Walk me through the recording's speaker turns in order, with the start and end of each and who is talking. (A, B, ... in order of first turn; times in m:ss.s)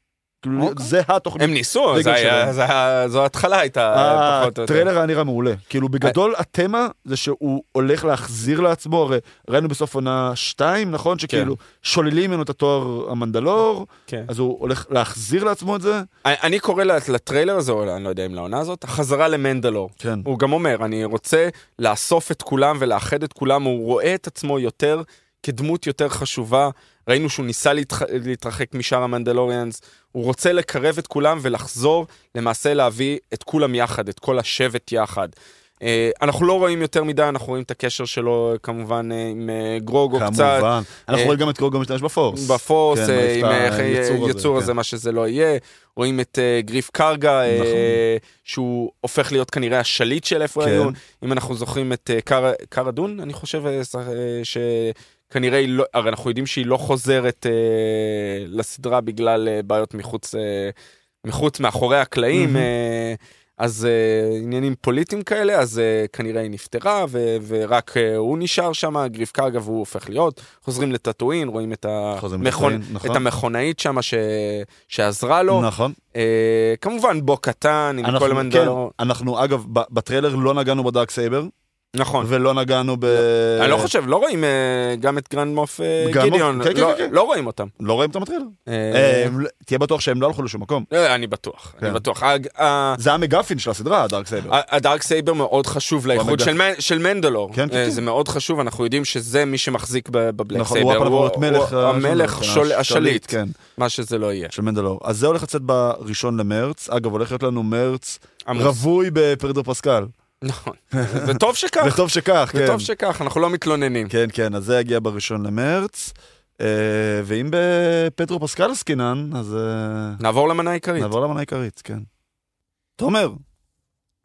0:00.4-0:02.5 A
0:00.6-0:04.9 B
0:03.9-0:16.1 A
0:11.3-0:11.5 B
0:16.2-0:41.3 B
0:20.0-0:20.3 A
0:40.1-0:44.7 A
0:42.3-1:18.9 B
0:47.5-0:48.0 A
0:50.6-0:51.0 A
1:02.3-1:02.7 A
1:12.2-1:13.2 A
1:15.5-1:16.0 A
1:18.0-1:21.5 A
1:21.9-1:22.3 B
1:22.2-1:23.9 A
1:23.1-1:27.7 B
1:26.0-1:27.1 A
1:27.8-1:30.9 A
1:28.7-1:29.3 B
1:30.9-1:33.0 B
1:33.0-1:34.6 A
1:34.5-1:44.5 B
1:36.1-1:36.5 A
1:37.5-1:38.0 A
1:40.5-1:43.6 A
1:44.5-1:50.1 A
1:48.4-1:48.8 B
1:50.4-1:52.0 B
1:50.9-1:52.9 A
1:52.5-1:54.1 B
1:54.1-2:00.2 A
2:00.2-2:01.1 B
2:01.0-2:02.1 A
2:03.0-2:03.4 A